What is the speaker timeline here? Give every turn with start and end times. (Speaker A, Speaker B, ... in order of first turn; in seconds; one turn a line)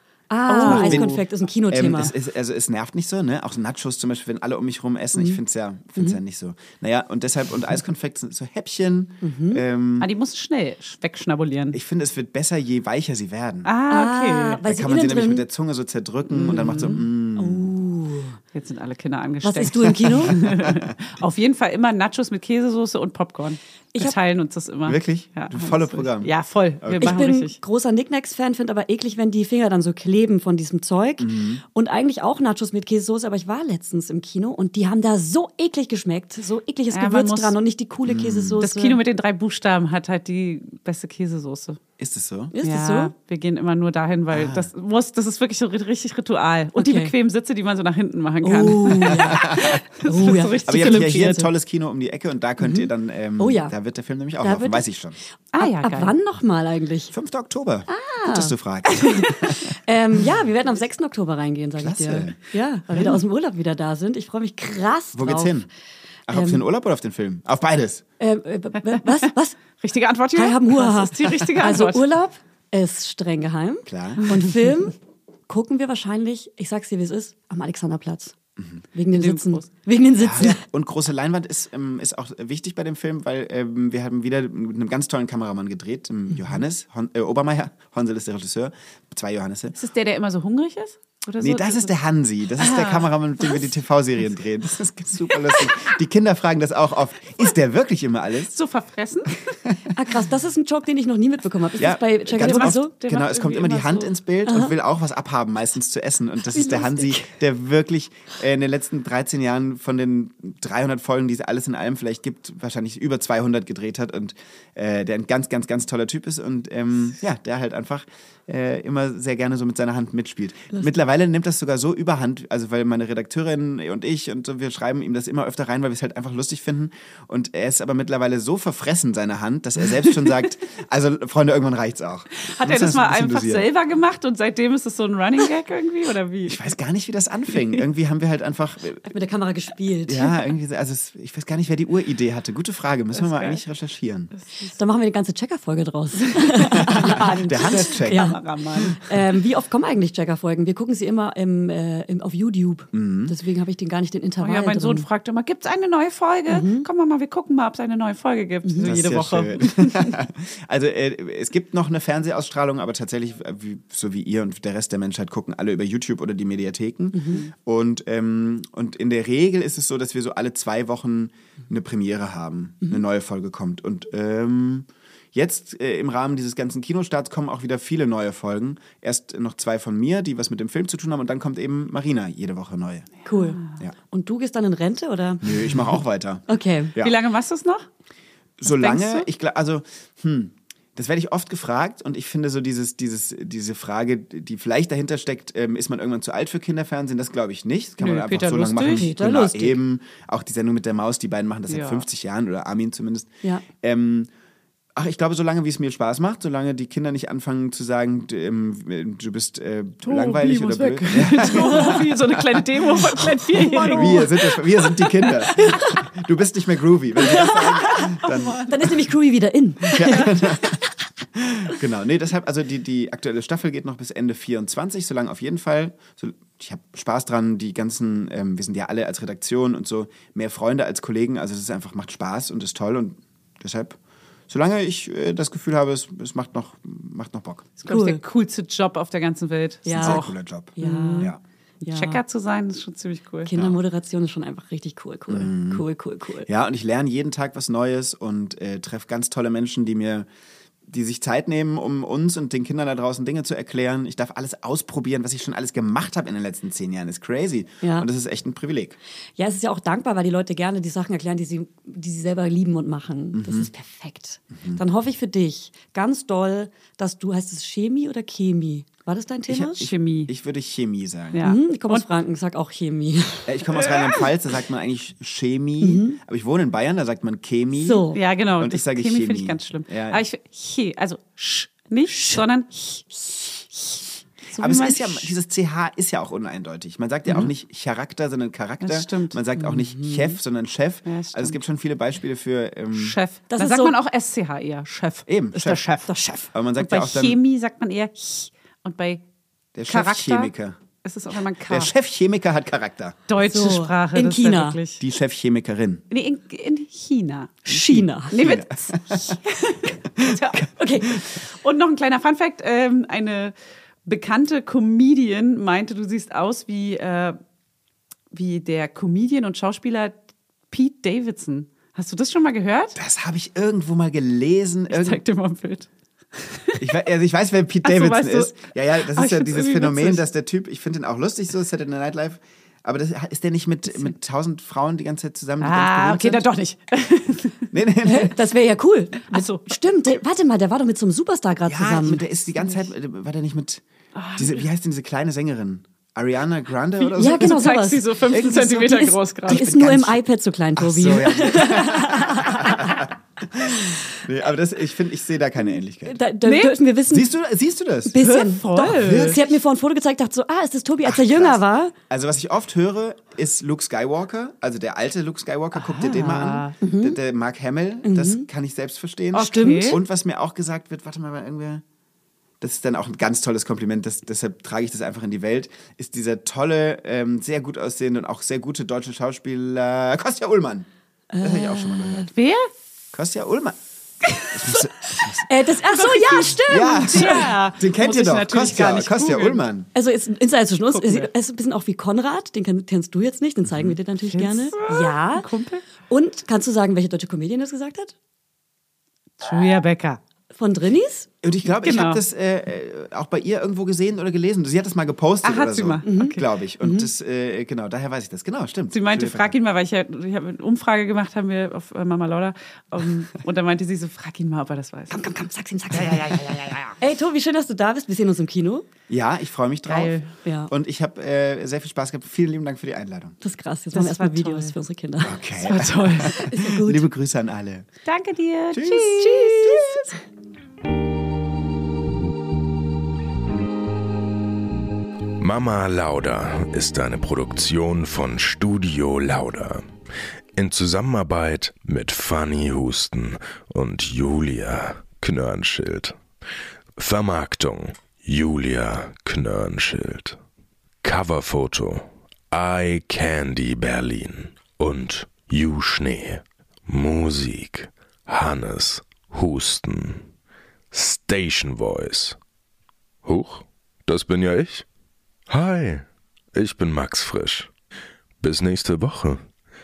Speaker A: 0.3-2.1
Speaker B: 0.5-1.2
Speaker C: 0.6-10.1
Speaker A: 9.2-9.6
Speaker B: 10.0-11.8
Speaker C: 11.7-13.7
Speaker B: 13.6-14.6
Speaker A: 13.9-15.4
Speaker C: 14.6-17.7
Speaker B: 16.3-17.0
Speaker A: 16.8-18.4
Speaker B: 18.5-27.6
Speaker A: 19.4-20.4
Speaker C: 20.3-20.9
Speaker C: 24.9-26.3
Speaker C: 26.8-27.2
Speaker A: 27.0-39.0
Speaker C: 31.2-31.6
Speaker B: 36.9-37.5
Speaker C: 38.1-38.6
Speaker B: 38.6-41.8
Speaker C: 42.0-42.5
Speaker A: 42.5-43.1
Speaker B: 42.6-51.5
Speaker C: 44.3-44.7
Speaker A: 46.7-47.1
Speaker A: 48.4-51.4
Speaker C: 49.2-49.8
Speaker C: 50.6-55.2
Speaker A: 52.6-53.7
Speaker A: 54.4-54.8
Speaker B: 55.5-56.1
Speaker A: 55.6-57.1
Speaker C: 57.1-59.7
Speaker A: 57.9-58.5
Speaker A: 59.5-65.6
Speaker C: 61.8-62.4
Speaker C: 65.1-65.7
Speaker C: 66.3-68.0
Speaker A: 66.3-66.6
Speaker A: 68.2-69.6
Speaker B: 69.8-72.0
Speaker A: 70.3-74.9
Speaker C: 73.9-74.2
Speaker A: 75.5-78.3
Speaker C: 78.6-78.8
Speaker A: 78.9-80.6
Speaker B: 79.1-79.7
Speaker C: 80.2-89.8
Speaker B: 89.8-91.9
Speaker C: 91.4-98.5
Speaker B: 92.6-93.7
Speaker B: 98.5-99.5
Speaker A: 99.9-102.9
Speaker C: 101.8-133.7
Speaker B: 102.3-104.1
Speaker A: 104.5-104.7
Speaker A: 106.5-107.3
Speaker B: 132.4-136.6
Speaker C: 136.4-139.1
Speaker A: 139.0-140.3
Speaker C: 140.1-144.3
Speaker B: 143.1-143.6
Speaker B: 144.3-144.8
Speaker A: 144.8-155.1
Speaker B: 146.5-147.2
Speaker C: 146.8-148.9
Speaker B: 147.7-149.0
Speaker C: 152.9-153.3
Speaker B: 154.4-160.1
Speaker A: 156.5-156.8
Speaker A: 158.6-158.9
Speaker C: 158.8-183.1
Speaker A: 167.1-167.4
Speaker A: 183.2-185.7
Speaker B: 183.3-183.7
Speaker C: 185.4-187.2
Speaker A: 186.5-186.9
Speaker B: 187.0-187.9
Speaker C: 188.6-204.3
Speaker B: 188.7-189.3
Speaker B: 198.0-199.1
Speaker A: 198.9-199.8
Speaker B: 201.7-202.0
Speaker C: 204.9-218.6
Speaker B: 210.0-214.4
Speaker A: 211.5-212.0
Speaker A: 213.5-216.1
Speaker A: 217.2-220.8
Speaker B: 217.5-218.9
Speaker C: 219.9-220.8
Speaker C: 221.3-234.0
Speaker C: 234.5-237.7
Speaker B: 237.8-241.3
Speaker A: 237.9-238.2
Speaker A: 239.8-240.2
Speaker C: 240.0-241.4
Speaker A: 240.8-242.2
Speaker B: 241.9-243.5
Speaker A: 243.4-246.5
Speaker C: 245.3-245.8
Speaker C: 246.4-250.3
Speaker C: 250.9-259.0
Speaker A: 259.4-269.8
Speaker C: 263.3-263.7
Speaker C: 269.5-271.4
Speaker B: 269.8-270.3
Speaker B: 271.3-272.1
Speaker A: 271.4-273.5
Speaker C: 273.5-280.2
Speaker B: 273.7-274.3
Speaker A: 275.8-276.2
Speaker A: 277.8-278.2
Speaker B: 278.1-285.3
Speaker A: 282.1-282.4
Speaker C: 284.6-293.2
Speaker B: 288.8-289.4
Speaker A: 289.6-290.4
Speaker B: 291.1-291.6
Speaker B: 292.9-296.1
Speaker A: 293.5-293.9
Speaker C: 295.3-295.8
Speaker A: 296.1-296.4
Speaker C: 296.4-297.4
Speaker B: 296.8-299.2
Speaker C: 299.8-300.8
Speaker B: 299.9-300.5
Speaker B: 301.0-301.9
Speaker C: 301.7-303.2
Speaker B: 303.3-305.0
Speaker A: 303.4-304.8
Speaker C: 305.0-306.0
Speaker B: 306.1-307.6
Speaker A: 307.6-308.4
Speaker C: 307.7-309.4
Speaker B: 308.3-313.5
Speaker C: 310.1-311.4
Speaker A: 310.8-311.2
Speaker B: 314.1-317.4
Speaker B: 318.3-320.2
Speaker B: 320.7-322.9
Speaker C: 322.9-325.2
Speaker B: 324.9-327.0
Speaker C: 326.8-336.5
Speaker B: 327.8-330.2
Speaker B: 335.6-337.7
Speaker C: 337.7-338.4
Speaker A: 338.0-342.2
Speaker B: 339.3-339.7
Speaker C: 341.7-343.8
Speaker B: 344.1-344.7
Speaker C: 344.4-350.2
Speaker B: 347.0-349.6
Speaker A: 347.2-353.1
Speaker C: 350.8-356.1
Speaker A: 356.0-357.3
Speaker B: 356.4-356.8
Speaker C: 357.1-358.2
Speaker A: 358.1-361.9
Speaker B: 358.1-359.4
Speaker C: 358.9-359.5
Speaker C: 361.0-371.8
Speaker B: 365.7-366.8
Speaker A: 366.8-367.2
Speaker A: 368.0-368.4
Speaker B: 369.3-370.0
Speaker A: 369.3-370.0
Speaker C: 372.6-380.9
Speaker A: 381.3-382.3
Speaker C: 381.4-382.3
Speaker B: 382.3-382.7
Speaker C: 383.1-383.8
Speaker C: 384.5-385.5
Speaker A: 385.4-387.5
Speaker B: 385.9-389.6
Speaker C: 386.6-389.9
Speaker A: 389.9-395.5
Speaker B: 390.9-391.3
Speaker C: 393.6-394.0
Speaker B: 394.3-395.8
Speaker A: 396.1-398.1
Speaker B: 399.4-400.2
Speaker A: 400.5-401.3
Speaker C: 401.4-409.5
Speaker B: 401.8-402.2
Speaker B: 405.4-406.5
Speaker A: 406.1-407.1
Speaker B: 408.9-415.2
Speaker A: 415.1-416.3
Speaker C: 415.9-416.9
Speaker A: 417.0-418.9
Speaker C: 419.1-420.1
Speaker B: 419.9-420.3
Speaker A: 420.4-420.7
Speaker C: 420.7-423.4
Speaker A: 423.4-425.4
Speaker B: 423.9-424.7
Speaker C: 425.2-427.9
Speaker B: 425.6-426.4
Speaker A: 426.2-427.1
Speaker B: 428.1-429.7
Speaker C: 428.7-430.1
Speaker A: 429.2-430.1
Speaker D: 435.4-439.9
Speaker D: 440.5-446.2
Speaker D: 447.0-450.4
Speaker D: 451.0-460.3
Speaker D: 460.9-462.4
Speaker D: 463.2-464.9
Speaker D: 465.5-467.7
Speaker D: 468.4-469.4